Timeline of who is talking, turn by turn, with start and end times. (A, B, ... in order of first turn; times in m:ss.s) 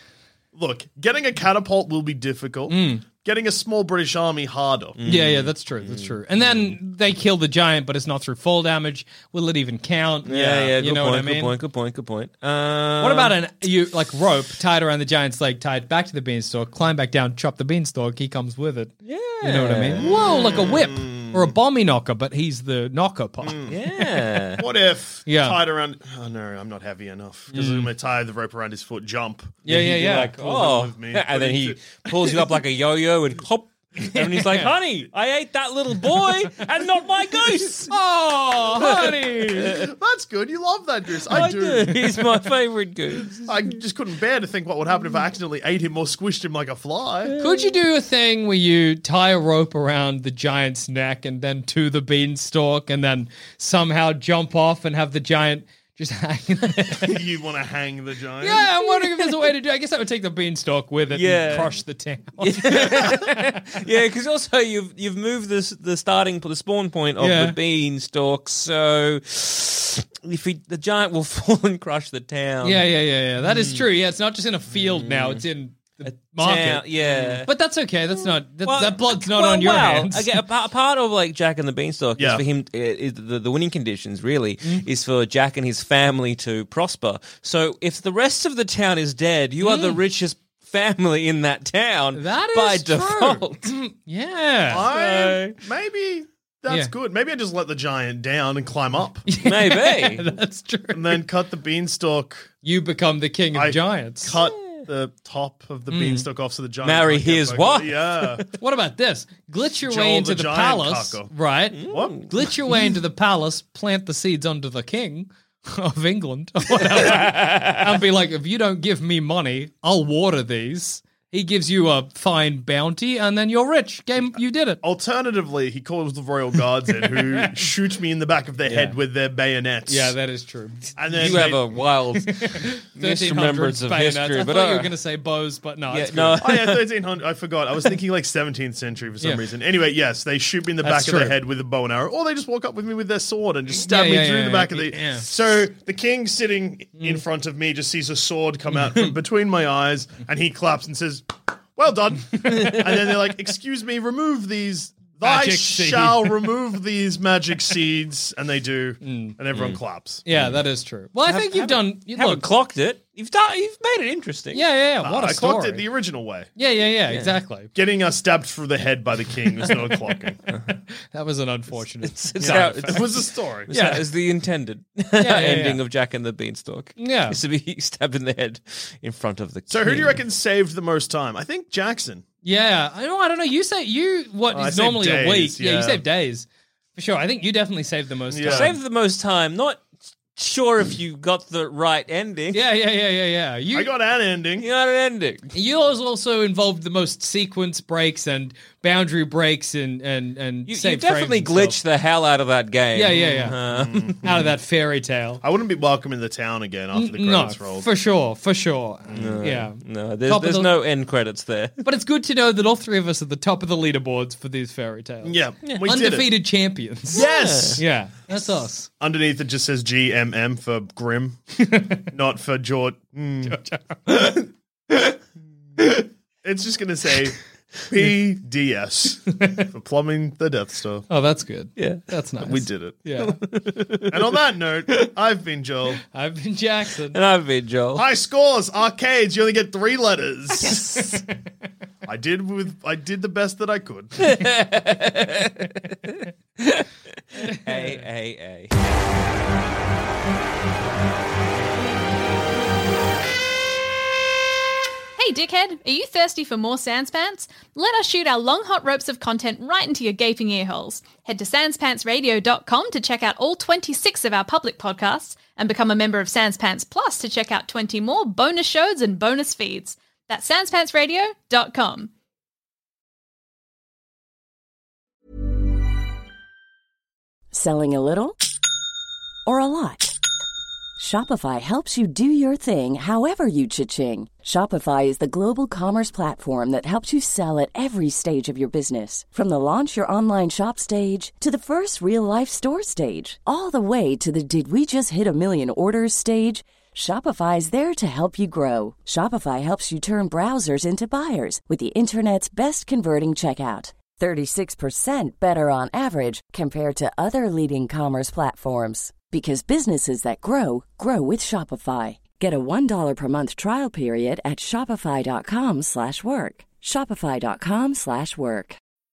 0:00.6-0:05.0 A
0:02.7-0:03.0 B
0:05.0-0:06.8 C
0:05.1-0:11.5 B
0:10.3-0:13.4 C
0:10.4-0:10.7 A
0:13.0-0:23.6 B
0:19.0-0:20.7 C
0:19.9-0:21.5 A
0:23.4-0:23.8 A
0:23.7-0:24.6 C
0:24.6-0:29.7 A
0:25.3-0:25.6 B
0:27.5-0:27.9 B
0:29.6-0:30.4 B
0:29.7-0:37.9 C
0:30.4-0:32.4 A
0:34.1-0:34.7 B
0:37.9-0:39.8 B
0:38.8-0:39.8 C
0:39.6-0:42.3 A
0:41.3-0:43.5 C
0:43.3-0:47.4 A
0:47.3-0:47.7 C
0:47.4-0:57.2 B
0:57.0-0:58.7 A
0:58.4-1:03.6 B
1:01.1-1:01.8 C
1:02.4-1:12.9 C
1:07.2-1:07.6 B
1:12.6-1:16.9 B
1:13.4-1:13.9 C
1:14.7-1:15.4 C
1:16.2-1:17.5 C
1:17.5-1:20.4 B
1:18.2-1:33.7 C
1:22.2-1:22.4 A
1:29.6-1:30.0 B
1:32.1-1:34.9 B
1:34.7-1:39.3 A
1:34.8-1:35.6 C
1:39.3-1:41.2 B
1:39.4-1:40.3 C
1:40.9-1:42.5 A
1:42.6-1:44.3 B
1:43.5-1:48.5 A
1:44.3-1:44.8 C
1:45.9-1:46.3 B
1:46.8-1:48.3 C
1:48.5-2:04.8 B
1:49.8-1:52.3 A
1:51.8-1:52.3 C
1:56.9-1:57.8 C
2:04.8-2:10.2 A
2:08.7-2:09.0 B
2:09.9-2:11.4 B
2:11.0-2:11.6 A
2:11.2-2:14.9 C
2:12.2-2:16.4 B
2:15.9-2:16.9 C
2:16.4-2:40.2 A
2:20.8-2:21.4 B
2:23.7-2:25.3 B
2:35.2-2:36.5 B
2:39.0-2:39.4 B
2:39.5-2:39.8 C
2:40.2-2:42.4 B
2:41.3-2:44.6 C
2:44.5-2:45.9 B
2:45.0-2:46.5 A
2:46.6-2:47.7 B
2:47.7-2:50.4 A
2:51.1-2:54.0 B
2:52.0-3:00.2 C
2:52.4-2:53.7 A
2:55.2-2:55.8 B
2:57.0-2:57.4 B
2:59.7-3:02.2 A
3:02.4-3:08.8 B
3:04.5-3:06.0 A
3:08.3-3:08.8 A
3:08.5-3:12.6 C
3:12.5-3:13.9 B
3:13.7-3:14.7 A
3:14.6-3:15.5 C
3:15.5-3:21.8 B
3:20.7-3:24.2 C
3:22.9-3:23.6 B
3:23.1-3:24.5 A
3:24.2-3:25.4 B
3:25.4-3:27.9 A
3:26.9-3:30.7 B
3:29.1-3:29.5 A
3:29.1-3:31.8 C
3:31.8-3:38.9 B
3:35.2-3:36.3 A
3:37.1-3:37.8 C
3:37.1-3:37.8 A
3:39.0-3:41.4 A
3:41.6-3:42.0 B
3:42.0-3:43.6 A
3:43.4-3:44.5 B
3:46.4-3:51.1 A
3:49.4-3:49.7 B
3:51.1-3:53.4 B
3:51.8-3:52.1 C
3:52.5-3:53.0 A
3:53.2-3:54.3 C
3:54.1-3:56.0 A
3:56.1-3:57.2 B
3:57.1-3:58.0 C
3:58.0-4:00.9 A
4:00.6-4:01.2 B
4:00.8-4:01.2 C
4:02.0-4:04.2 A
4:04.2-4:08.9 C
4:07.5-4:08.0 B
4:15.2-4:32.1 D
4:37.5-4:38.4 E
4:39.5-4:40.1 E
4:41.0-5:18.8 E